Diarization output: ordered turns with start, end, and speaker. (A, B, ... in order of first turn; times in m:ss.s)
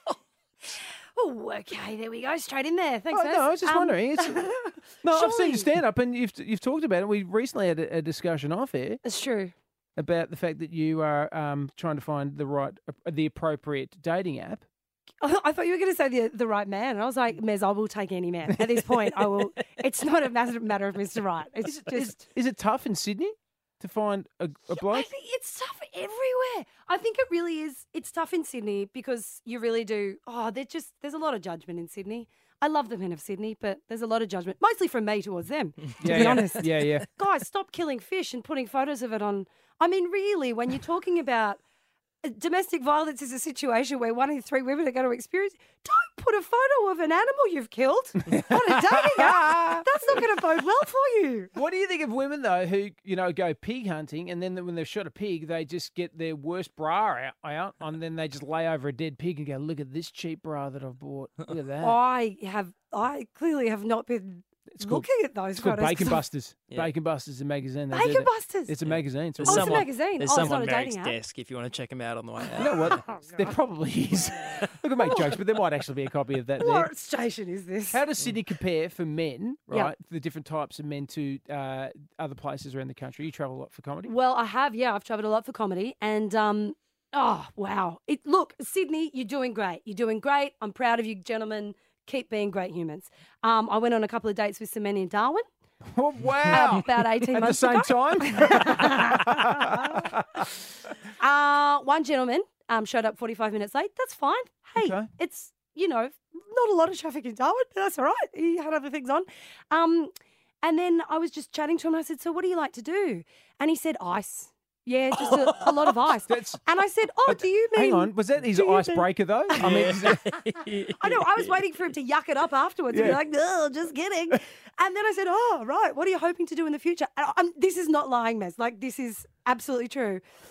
0:00.7-0:05.7 A
0:03.1-0:09.0 B
0:09.0-0:09.5 A
0:10.0-0:14.6 B
0:15.2-0:22.2 A
0:21.6-0:25.1 B
0:24.7-0:41.6 A
0:36.0-0:37.1 B
0:42.2-0:51.5 A
0:48.3-0:50.2 B
0:51.5-1:02.0 B
1:01.8-1:06.2 A
1:04.7-1:09.9 B
1:07.9-1:08.8 A
1:09.4-1:13.0 C
1:09.4-1:11.2 A
1:12.6-1:16.9 B
1:15.0-1:15.3 A
1:16.6-1:18.0 A
1:17.9-1:24.1 B
1:24.1-1:35.5 A
1:35.9-1:40.4 B
1:36.5-1:40.5 A
1:41.2-2:00.0 A
1:44.8-1:45.1 B
1:56.3-1:56.6 B
1:57.3-2:00.4 B
1:59.6-2:01.2 C
2:00.8-2:10.2 A
2:02.9-2:03.2 B